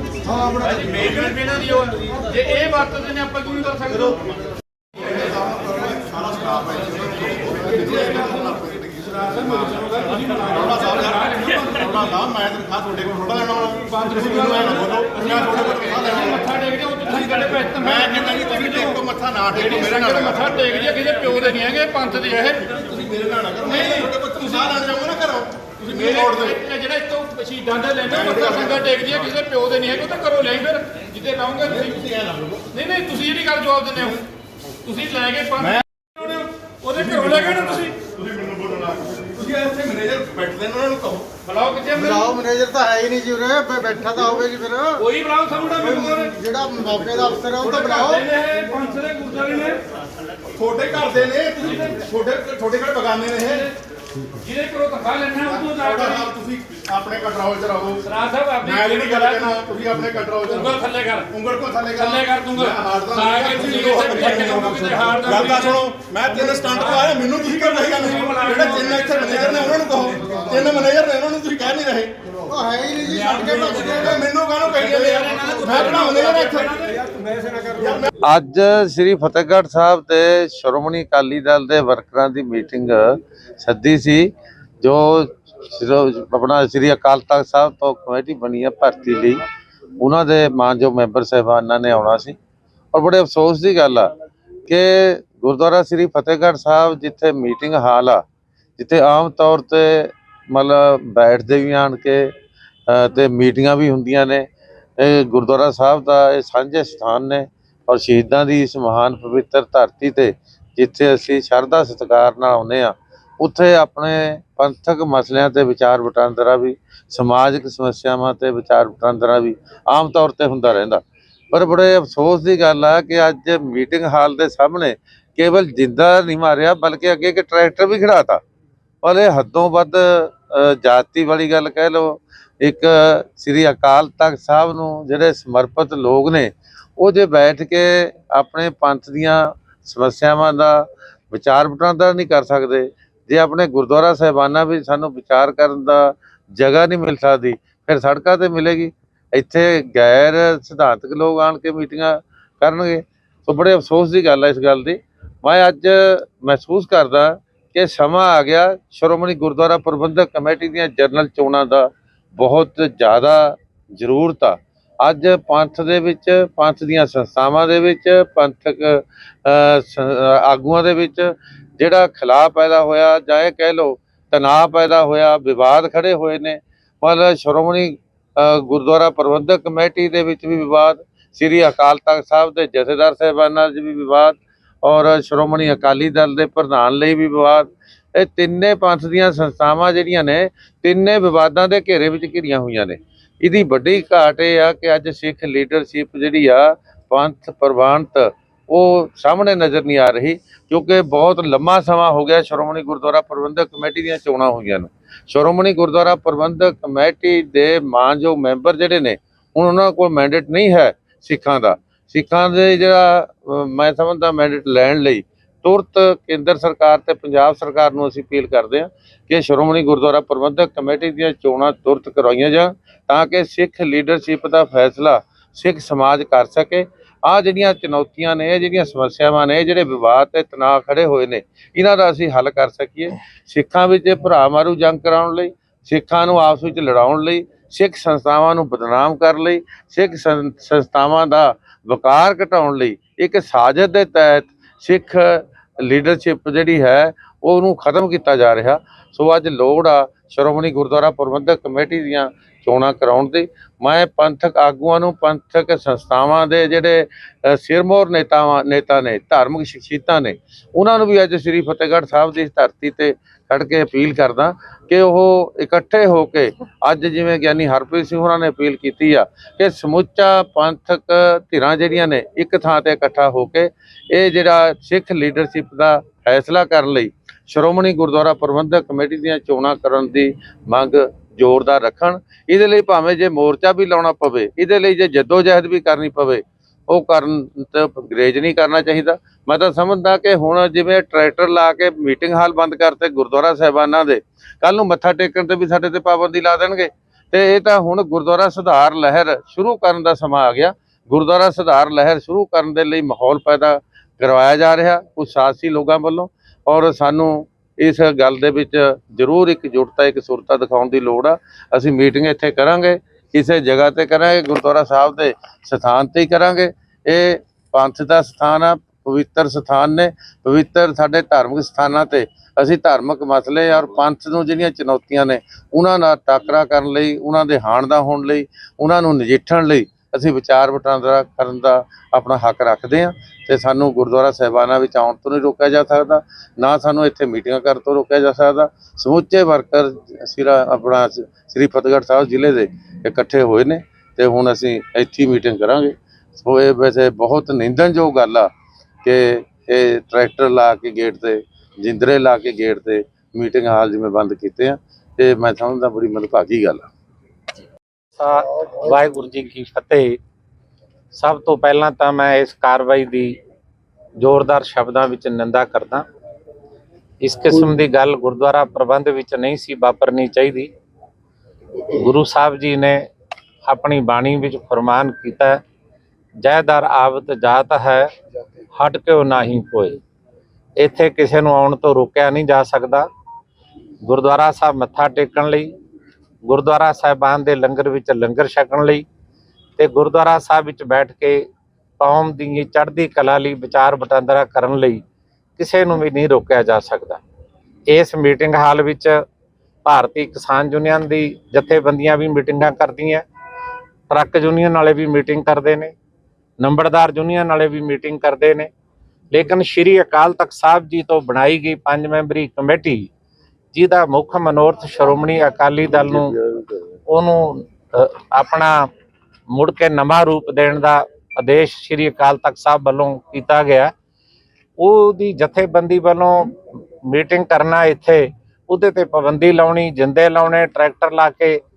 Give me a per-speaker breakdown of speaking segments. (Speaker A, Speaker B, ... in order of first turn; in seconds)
Speaker A: 0.4-1.3, 5.2-9.8, 10.5-16.6, 17.1-20.8, 22.7-26.6, 28.1-29.3, 31.6-32.7, 37.0-41.3, 50.5-53.7, 55.5-58.0, 58.6-72.1, 73.2-76.9, 77.7-78.1
Speaker B: 0.7-4.2, 9.6-11.4, 16.1-18.4, 19.6-22.8, 23.6-24.1, 25.8-31.9, 32.7-34.2, 34.8-37.9, 41.5-42.3, 45.0-46.3, 47.6-49.8, 54.4-56.1, 58.1-59.4, 60.5-61.3, 62.0-65.7, 68.1-68.7
Speaker C: 42.0-45.0, 46.1-48.2, 72.5-74.0
Speaker D: 78.2-84.3, 84.8-89.4, 90.0-92.3, 92.9-94.1, 94.7-98.2, 98.8-102.3, 102.9-104.5, 105.0-128.4, 129.0-348.5, 349.1-356.9, 416.1-416.7
Speaker E: 358.2-360.2, 361.1-363.4, 364.2-366.0, 367.2-370.7, 371.9-373.1, 373.7-375.6, 376.4-378.1, 378.8-380.0, 380.8-383.1, 384.0-385.7, 386.5-389.0, 389.8-391.4, 392.0-395.0, 395.6-397.2, 397.9-399.2, 399.9-403.2, 404.1-405.9, 406.6-408.7, 409.3-413.1, 413.7-416.3, 417.1-418.8, 419.5-423.9, 424.8-426.5, 427.1-431.6